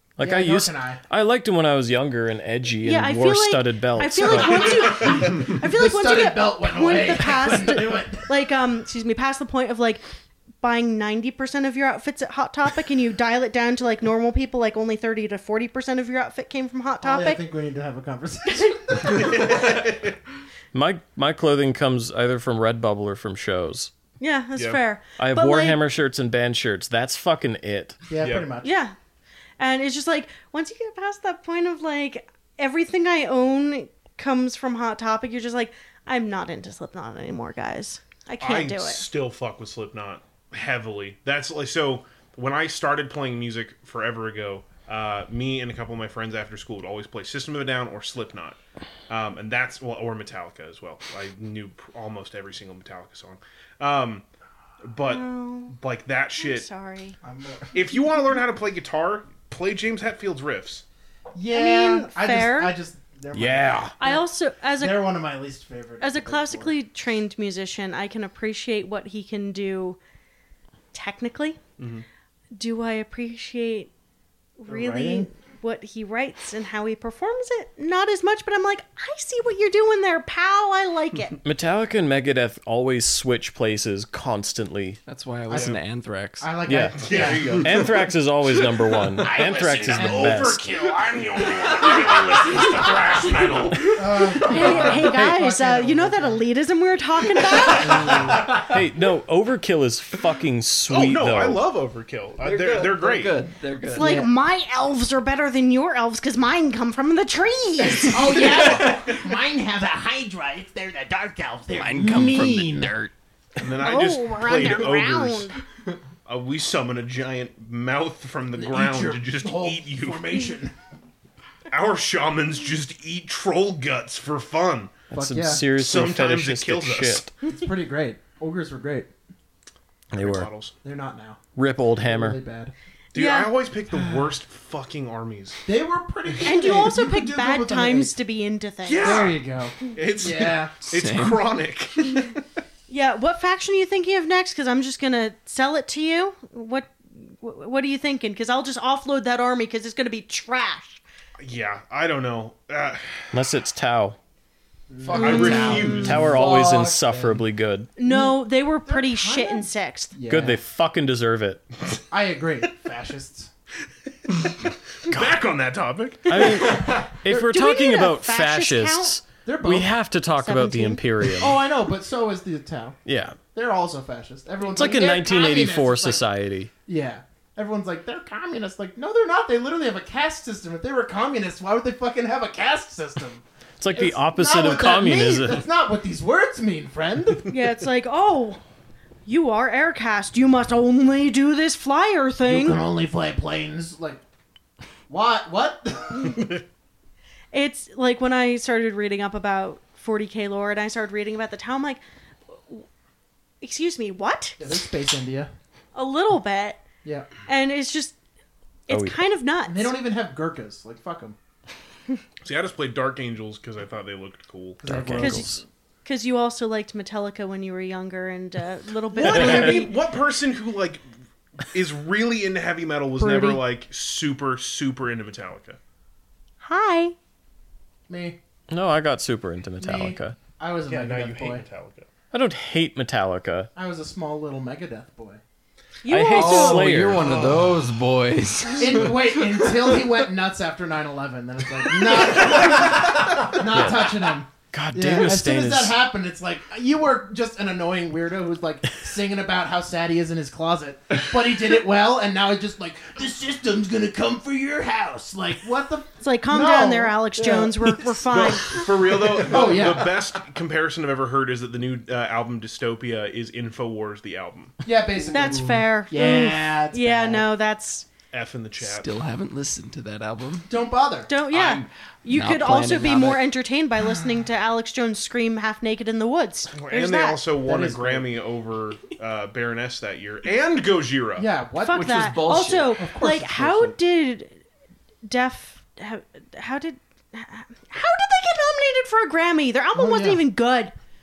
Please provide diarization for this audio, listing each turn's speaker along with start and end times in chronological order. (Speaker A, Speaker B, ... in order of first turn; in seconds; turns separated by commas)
Speaker A: 0.2-4.9, Speaker B: 0.2-1.0, Speaker C: 2.8-10.0, Speaker B: 4.5-8.4, Speaker C: 10.6-17.4, Speaker B: 17.0-19.7, Speaker D: 19.1-20.1, Speaker A: 20.7-23.9, Speaker C: 24.2-25.8, Speaker A: 25.2-28.0, Speaker B: 28.1-28.8, Speaker D: 28.2-28.5, Speaker C: 28.6-28.9, Speaker C: 29.6-39.0, Speaker D: 38.4-48.6, Speaker D: 49.1-54.2, Speaker D: 54.9-56.7, Speaker C: 55.0-55.7, Speaker C: 56.4-57.2, Speaker B: 57.2-57.8, Speaker D: 57.7-60.8, Speaker B: 61.3-64.2, Speaker C: 61.5-62.7, Speaker A: 63.3-63.9, Speaker C: 64.0-65.1, Speaker B: 64.8-66.8, Speaker C: 66.0-70.0, Speaker C: 70.9-71.6, Speaker D: 71.8-72.0, Speaker C: 72.5-73.9, Speaker C: 74.6-81.4, Speaker B: 74.7-75.3, Speaker A: 81.4-85.0, Speaker E: 85.0-87.7, Speaker B: 85.5-85.8, Speaker D: 85.5-85.8, Speaker B: 86.4-87.7, Speaker A: 86.6-90.6, Speaker D: 87.0-87.9, Speaker B: 89.2-96.4, Speaker C: 94.4-98.2, Speaker B: 97.7-98.6, Speaker A: 98.5-101.6, Speaker D: 100.9-103.4, Speaker E: 102.4-104.2, Speaker C: 103.9-108.5, Speaker B: 104.0-104.3, Speaker B: 108.0-112.9, Speaker E: 111.7-113.1, Speaker D: 113.5-115.5, Speaker C: 113.8-115.6, Speaker D: 116.2-120.4, Speaker B: 118.5-120.7, Speaker D: 121.7-125.0, Speaker A: 125.1-127.3, Speaker B: 125.1-125.7, Speaker D: 125.6-127.3, Speaker B: 127.5-129.1, Speaker A: 130.1-130.5, Speaker D: 130.2-130.7, Speaker B: 130.8-131.4, Speaker A: 131.6-132.4, Speaker B: 131.9-132.7, Speaker C: 133.1-133.5, Speaker D: 133.1-135.6, Speaker B: 133.9-134.3, Speaker B: 135.7-138.1, Speaker C: 136.4-139.3, Speaker D: 138.8-142.4, Speaker B: 139.0-140.7, Speaker E: 140.9-141.4, Speaker C: 142.9-151.0, Speaker D: 151.4-153.3, Speaker A: 153.3-154.2, Speaker B: 154.9-157.3, Speaker E: 155.0-157.0, Speaker D: 155.1-156.2, Speaker C: 155.1-156.1, Speaker A: 155.9-157.9, Speaker C: 158.0-160.1, Speaker B: 158.1-160.6, Speaker A: 160.3-161.6, Speaker B: 162.1-163.5, Speaker D: 164.4-166.5, Speaker A: 166.2-171.6, Speaker C: 166.4-169.2, Speaker B: 169.4-169.9, Speaker C: 170.4-171.1, Speaker B: 171.3-173.0, Speaker A: 173.0-173.4, Speaker B: 173.5-176.2, Speaker A: 174.7-176.7, Speaker B: 176.9-187.5, Speaker A: 183.8-185.6, Speaker C: 187.5-188.6, Speaker C: 189.2-192.8, Speaker B: 192.4-194.2, Speaker B: 195.1-196.5, Speaker C: 197.5-202.0, Speaker C: 202.5-202.8, Speaker C: 203.6-204.7, Speaker B: 204.6-205.5, Speaker C: 205.9-206.8, Speaker C: 207.4-208.2, Speaker C: 208.9-209.9, Speaker A: 208.9-209.2, Speaker B: 209.6-211.4, Speaker D: 212.4-214.9, Speaker B: 214.8-215.6, Speaker A: 214.8-215.6, Speaker C: 215.2-215.5, Speaker C: 216.0-219.9, Speaker D: 219.2-221.0, Speaker A: 219.3-219.8, Speaker D: 221.6-225.8, Speaker C: 223.2-223.6, Speaker C: 226.6-227.2, Speaker B: 228.1-228.4, Speaker A: 228.7-230.4, Speaker B: 229.8-231.6, Speaker D: 230.9-232.1, Speaker A: 232.3-233.7, Speaker B: 233.8-235.4, Speaker C: 236.0-236.9, Speaker A: 236.1-237.4, Speaker E: 236.3-240.0, Speaker B: 237.2-237.6, Speaker B: 238.8-258.1, Speaker A: 243.7-245.9, Speaker C: 256.2-258.9, Speaker D: 258.3-264.8, Speaker B: 259.2-260.2, Speaker B: 264.8-267.5, Speaker C: 265.3-268.1, Speaker D: 268.3-269.1, Speaker E: 268.8-270.7, Speaker B: 270.7-271.3, Speaker C: 271.3-277.4, Speaker E: 271.5-273.4, Speaker D: 276.8-281.5, Speaker B: 277.6-278.3, Speaker B: 281.4-282.3, Speaker C: 281.8-284.6, Speaker E: 281.9-283.0, Speaker B: 283.0-283.9, Speaker C: 285.2-290.9, Speaker B: 289.9-290.4